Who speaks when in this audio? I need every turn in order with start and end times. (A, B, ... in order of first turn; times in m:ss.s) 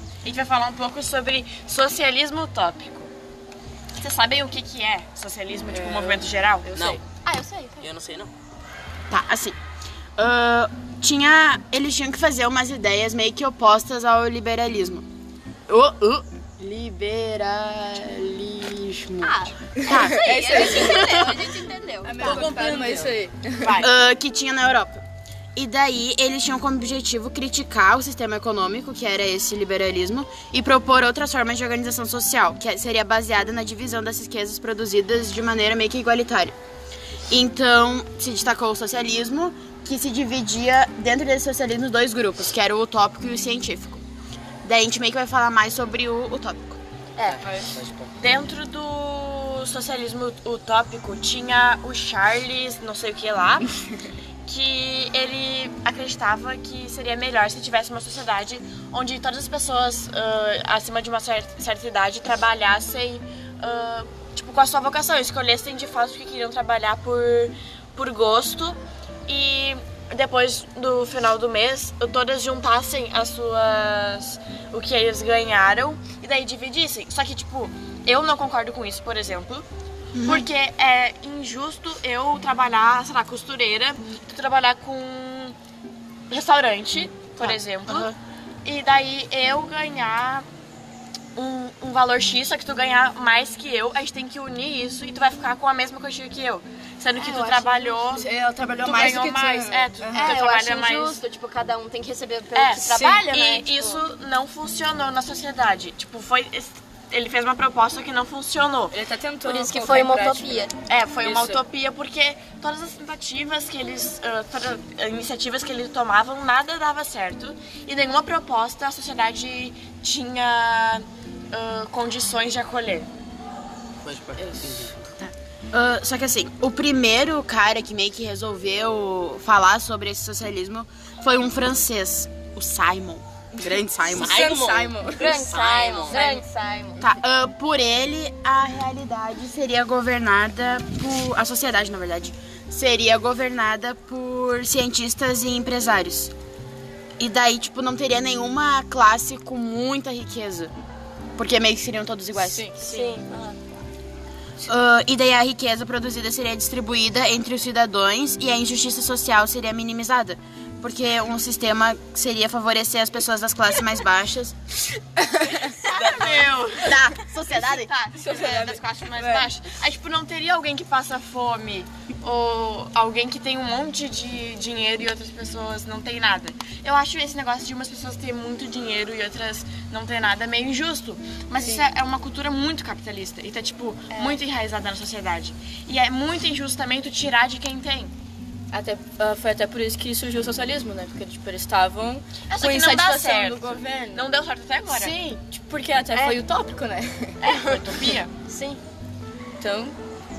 0:00.2-0:03.1 A
0:04.0-0:07.0 A
0:06.7-0:07.0 B
0:07.2-0:07.9 C
0:07.8-0:08.3 B
0:09.1-0:09.6 D
0:10.2-0:15.0 D
0:15.7-0:21.4 D
0:19.2-0:22.8 C
0:19.8-0:21.4 E
0:22.0-0:23.8 E
0:22.2-0:22.9 A
0:22.3-0:23.0 B
0:23.6-0:23.9 A
0:23.8-0:25.0 D
0:25.5-0:36.5 D
0:37.3-0:44.0 D
0:44.6-0:46.8 D
0:47.2-0:48.1 B
0:47.4-0:47.7 E
0:48.2-0:53.7 A
0:54.5-1:19.6 A
1:20.1-1:20.5 D
1:20.2-1:25.6 A
1:26.3-1:28.1 A
1:27.4-1:28.2 D
1:28.6-1:30.4 A
1:31.4-1:38.2 A
1:37.2-1:38.2 C
1:38.1-1:40.4 E
1:38.8-1:41.2 A
1:40.1-1:44.0 C
1:42.5-1:48.9 A
1:48.9-1:50.7 E
1:49.4-1:50.8 C
1:50.9-2:03.1 A
1:51.2-1:51.6 E
2:04.0-2:05.0 B
2:05.2-2:14.5 D
2:14.0-2:15.4 E
2:14.1-2:16.4 B
2:15.1-2:17.0 C
2:17.0-2:26.3 D
2:27.2-2:30.7 D
2:31.4-2:32.6 D
2:32.3-2:33.2 E
2:32.8-2:33.6 C
2:34.6-2:44.6 D
2:45.8-2:47.0 A
2:45.9-2:47.9 D
2:47.5-3:08.1 A
2:48.1-2:49.5 E
3:04.1-3:04.4 C
3:08.7-3:14.3 E
3:12.5-3:15.2 A
3:14.9-3:17.5 E
3:16.1-3:16.4 C
3:17.4-3:17.8 C
3:17.5-3:18.3 A
3:18.5-3:18.8 C
3:19.6-3:20.0 E